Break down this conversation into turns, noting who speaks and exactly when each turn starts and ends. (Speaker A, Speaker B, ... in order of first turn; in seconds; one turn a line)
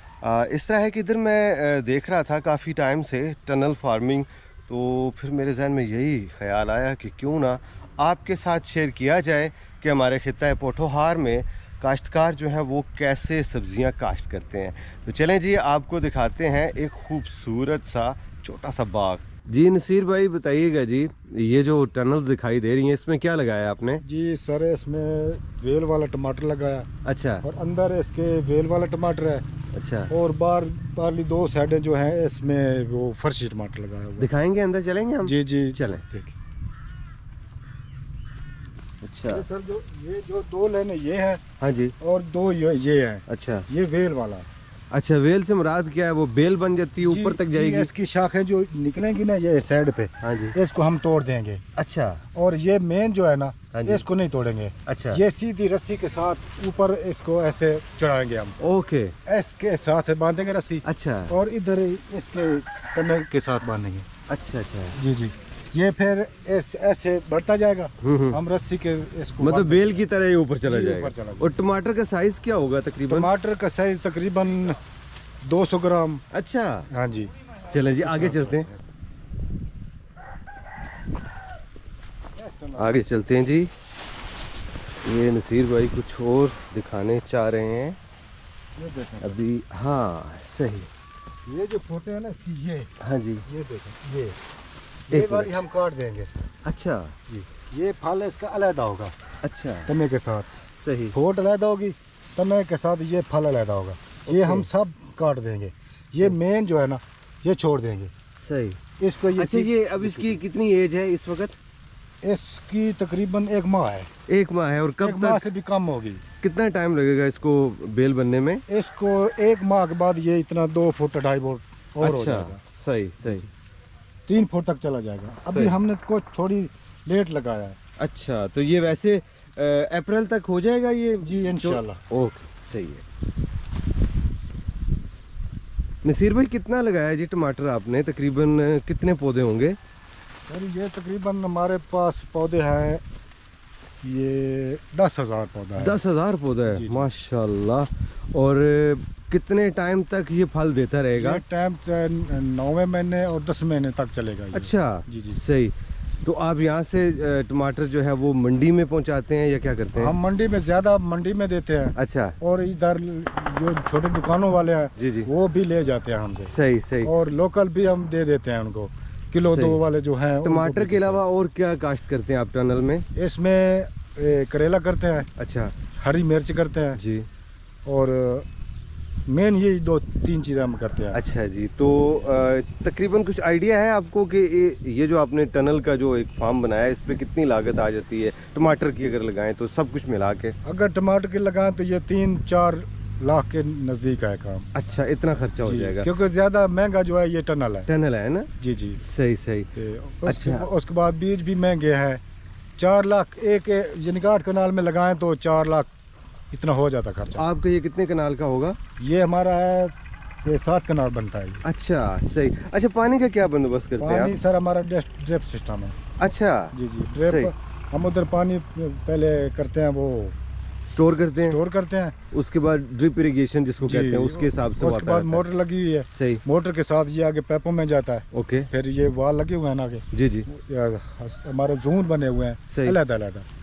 Speaker A: 0.2-24.0
Speaker B: 24.0-26.9
Speaker A: 27.1-27.4
Speaker B: 27.4-29.4
Speaker A: 29.8-30.1
Speaker B: 30.1-34.3
Speaker A: 34.2-36.0
Speaker B: 35.2-36.3
Speaker A: 39.0-39.5
Speaker B: 39.3-41.4
Speaker A: 41.6-42.0
Speaker B: 42.0-44.5
Speaker A: 43.3-43.7
Speaker A: 44.9-47.9
Speaker B: 47.0-51.6
Speaker A: 50.2-50.6
Speaker A: 51.8-52.2
Speaker B: 52.4-58.6
Speaker A: 53.7-54.0
Speaker A: 54.9-55.2
Speaker A: 58.6-59.1
Speaker B: 59.3-64.1
Speaker A: 60.9-61.4
Speaker A: 64.3-65.0
Speaker B: 65.0-70.0
Speaker A: 68.0-68.4
Speaker A: 69.4-73.3
Speaker B: 70.7-71.6
Speaker B: 73.1-74.8
Speaker B: 75.4-76.2
Speaker A: 76.3-76.9
Speaker B: 76.9-77.3
Speaker A: 77.7-78.7
Speaker B: 78.0-78.8
Speaker B: 82.4-83.0
Speaker A: 82.8-83.7
Speaker A: 85.0-88.0
Speaker B: 88.8-89.4
Speaker A: 89.2-90.9
Speaker B: 91.5-92.9
Speaker A: 93.0-93.5
Speaker B: 93.5-94.4
Speaker A: 95.1-95.6
Speaker B: 95.1-96.5
Speaker A: 96.6-97.2
Speaker B: 97.3-99.1
Speaker A: 99.4-99.9
Speaker B: 99.9-100.5
Speaker A: 100.8-101.2
Speaker B: 101.1-108.1
Speaker A: 104.3-104.7
Speaker A: 108.3-108.8
Speaker B: 109.0-110.4
Speaker A: 109.4-111.6
Speaker B: 112.2-114.1
Speaker A: 114.3-115.5
Speaker B: 115.0-116.2
Speaker A: 116.4-118.6
Speaker B: 118.7-122.6
Speaker A: 122.0-123.5
Speaker B: 123.2-123.5
Speaker B: 124.3-127.8
Speaker A: 125.4-125.8
Speaker A: 128.0-133.1
Speaker B: 131.2-132.0
Speaker A: 136.0-139.8
Speaker B: 140.5-143.0
Speaker B: 144.0-146.0
Speaker A: 145.8-151.4
Speaker B: 146.7-147.1
Speaker B: 151.1-155.4
Speaker A: 154.5-160.2
Speaker B: 159.9-171.2
Speaker A: 162.0-162.3
Speaker A: 165.0-165.3
Speaker A: 166.4-167.1
Speaker A: 169.4-169.8
Speaker A: 170.4-173.1
Speaker B: 173.2-175.3
Speaker A: 175.4-175.8
Speaker B: 176.0-177.0
Speaker A: 176.9-177.3
Speaker B: 177.9-178.5
Speaker B: 179.3-181.2
Speaker A: 181.1-190.6
Speaker B: 190.6-194.7
Speaker A: 194.7-196.1
Speaker B: 195.6-197.9
Speaker A: 197.9-198.5
Speaker B: 198.6-199.0
Speaker A: 199.0-199.7
Speaker B: 199.8-202.2
Speaker A: 200.3-200.7
Speaker B: 202.8-205.9
Speaker B: 206.5-207.4
Speaker A: 207.3-208.8
Speaker B: 209.0-211.6
Speaker A: 211.6-214.3
Speaker B: 214.0-216.0
Speaker A: 216.2-217.5
Speaker B: 216.7-220.4
Speaker A: 220.9-221.6
Speaker B: 221.4-222.1
Speaker A: 222.3-225.5
Speaker B: 223.8-233.5
Speaker A: 226.1-226.4
Speaker A: 228.3-228.7
Speaker A: 230.1-230.5
Speaker A: 232.7-233.0